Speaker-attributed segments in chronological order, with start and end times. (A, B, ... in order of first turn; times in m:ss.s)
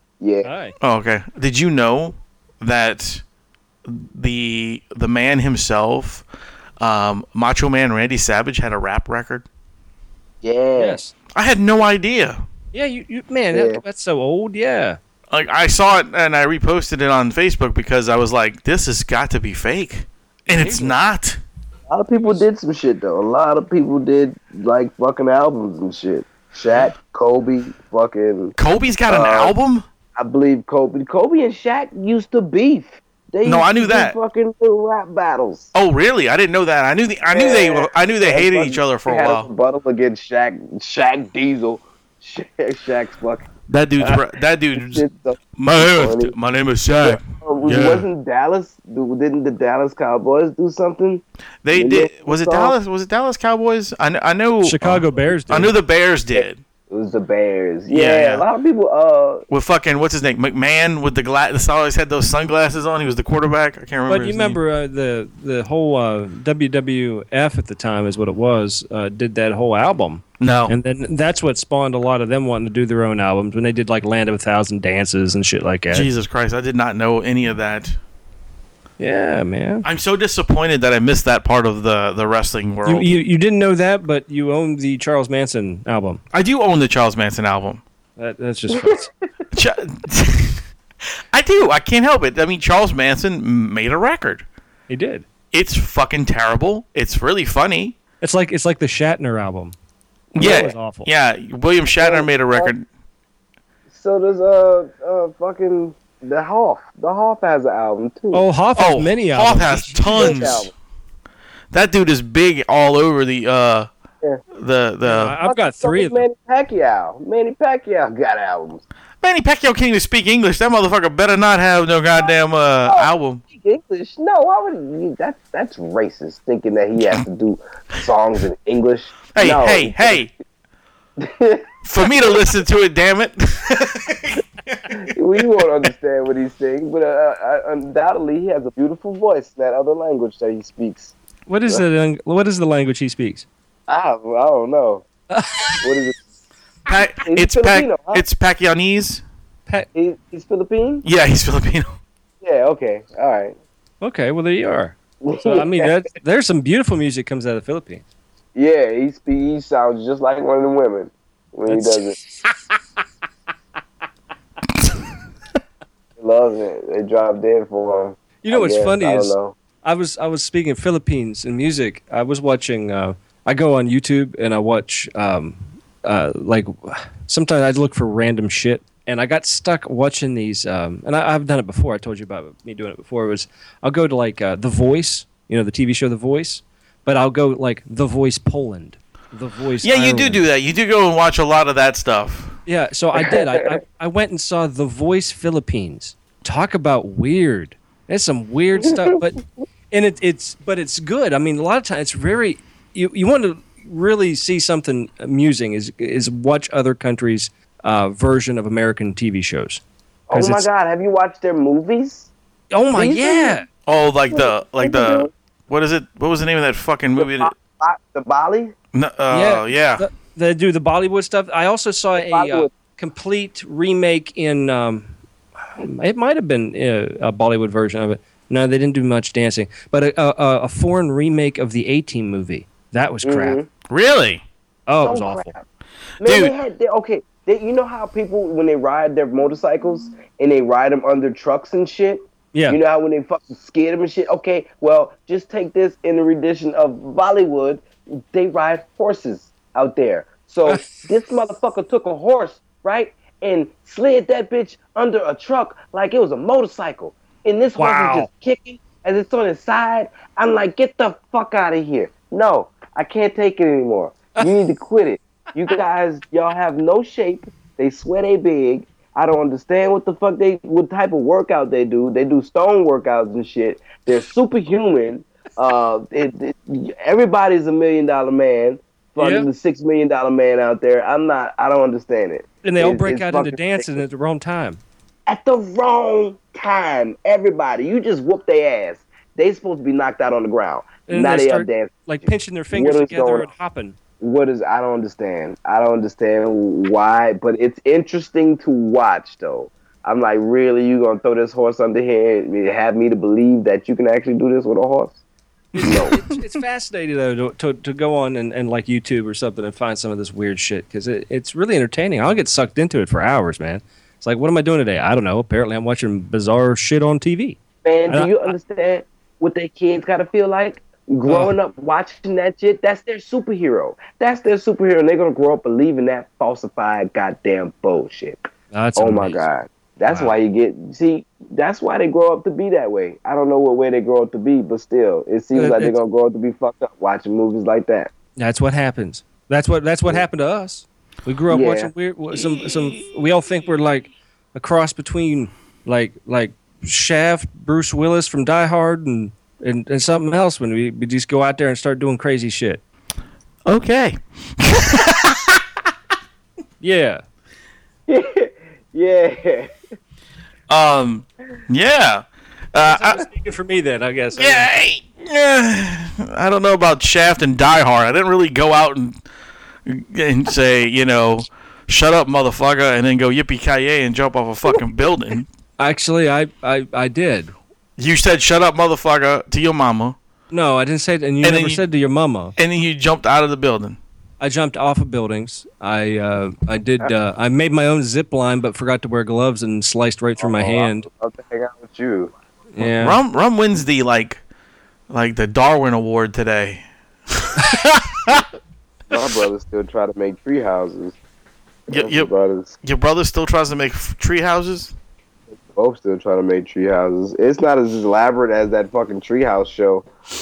0:00.2-0:00.5 A
0:00.4-0:00.7 B
0:00.8-0:03.2 C
0:03.8-0:06.2 C
0:06.8-0:09.4 C
0:10.4-0:11.0 A
0:10.8-0:11.1 B
0:11.3-0:12.4 C
0:12.7-0:15.0 B
0:13.5-0:13.8 A
0:15.3-0:21.4 C
0:20.5-0:21.0 B
0:21.9-0:28.5 A
0:28.6-0:29.8 C
0:29.1-0:29.5 A
0:30.2-0:35.7 A
0:33.4-0:34.1 C
0:35.7-0:39.5 C
0:37.3-0:43.5 A
0:43.7-0:45.0 C
0:44.0-0:46.3 A
0:45.6-0:48.1 C
0:47.0-0:52.7 A
0:51.6-0:56.6 C
0:54.6-0:55.7 B
0:56.3-0:59.4 A
0:57.9-0:58.4 C
0:59.5-1:04.6 C
1:04.1-1:16.1 B
1:10.4-1:10.8 C
1:15.9-1:18.0 C
1:19.0-1:19.8 B
1:19.8-1:23.1 C
1:22.8-1:26.2 B
1:26.3-1:27.8 C
1:28.2-1:29.1 B
1:28.7-1:29.3 A
1:29.5-1:30.6 C
1:31.3-1:34.4 C
1:34.9-1:35.2 B
1:35.5-1:38.0 C
1:38.2-1:39.7 B
1:40.3-1:42.8 C
1:40.4-1:40.7 A
1:40.4-1:41.1 B
1:41.9-1:42.7 A
1:43.9-1:48.4 A
1:48.3-1:50.6 B
1:48.8-1:50.7 C
1:50.1-1:50.7 A
1:51.7-1:53.9 C
1:54.5-1:55.4 C
1:55.0-1:56.2 B
1:55.4-1:58.8 A
1:59.2-2:03.4 C
2:02.8-2:10.3 A
2:09.3-2:10.3 C
2:11.2-2:11.6 A
2:11.8-2:14.9 C
2:14.9-2:21.2 A
2:21.5-2:23.4 B
2:23.9-2:25.0 A
2:25.3-2:25.8 B
2:25.8-2:26.2 A
2:26.9-2:29.2 C
2:27.2-2:28.2 A
2:29.9-2:31.0 A
2:31.0-2:32.0 C
2:32.4-2:33.6 A
2:34.0-2:38.0 B
2:35.2-2:35.9 A
2:38.5-2:42.2 A
2:41.7-2:42.6 B
2:46.2-2:49.6 A
2:48.4-3:10.4 B
3:09.8-3:12.6 C
3:12.6-3:30.7 B
3:13.2-3:13.4 A
3:18.8-3:19.2 A
3:30.3-3:32.3 A
3:32.7-3:33.7 B
3:32.9-3:33.6 A
3:33.8-3:37.5 C
3:34.3-3:35.3 A
3:37.2-3:38.7 A
3:38.9-3:40.0 C
3:39.3-3:45.1 B
3:42.1-3:42.7 A
3:45.8-3:53.6 B
3:53.2-3:53.7 A
3:53.9-3:54.4 C
3:54.9-3:55.5 B
3:55.0-3:55.6 A
3:56.2-4:44.0 A
3:56.2-3:56.5 C
4:02.5-4:02.8 B
4:10.6-4:11.1 B
4:17.8-4:18.3 B
4:39.2-4:39.5 B
4:42.6-4:44.8 B
4:45.3-4:52.1 A
4:51.1-4:54.0 B
4:52.7-4:53.5 A
4:54.2-5:05.2 A
5:05.7-5:18.5 B
5:05.8-5:06.2 A
5:17.8-5:28.4 A
5:21.2-5:21.5 B
5:28.7-5:29.5 B
5:29.0-5:38.1 A
5:35.5-5:36.0 B
5:38.4-5:52.8 B
5:41.5-5:41.9 A
5:53.6-5:55.6 C
5:56.8-5:57.2 B
5:58.1-5:59.7 A
6:00.7-6:03.2 C
6:02.8-6:04.7 B
6:04.4-6:09.2 C
6:09.8-6:15.5 C
6:15.8-6:17.5 B
6:18.0-6:20.2 C
6:20.5-6:22.5 B
6:21.4-6:21.8 C
6:22.6-6:24.0 C
6:24.4-6:31.1 B
6:30.4-6:32.3 A
6:32.7-6:33.2 B
6:32.8-6:34.4 C
6:35.1-6:38.4 C
6:39.1-6:41.2 A
6:41.9-6:42.3 C
6:41.9-6:42.7 A
6:42.8-6:44.9 C
6:45.5-6:50.1 A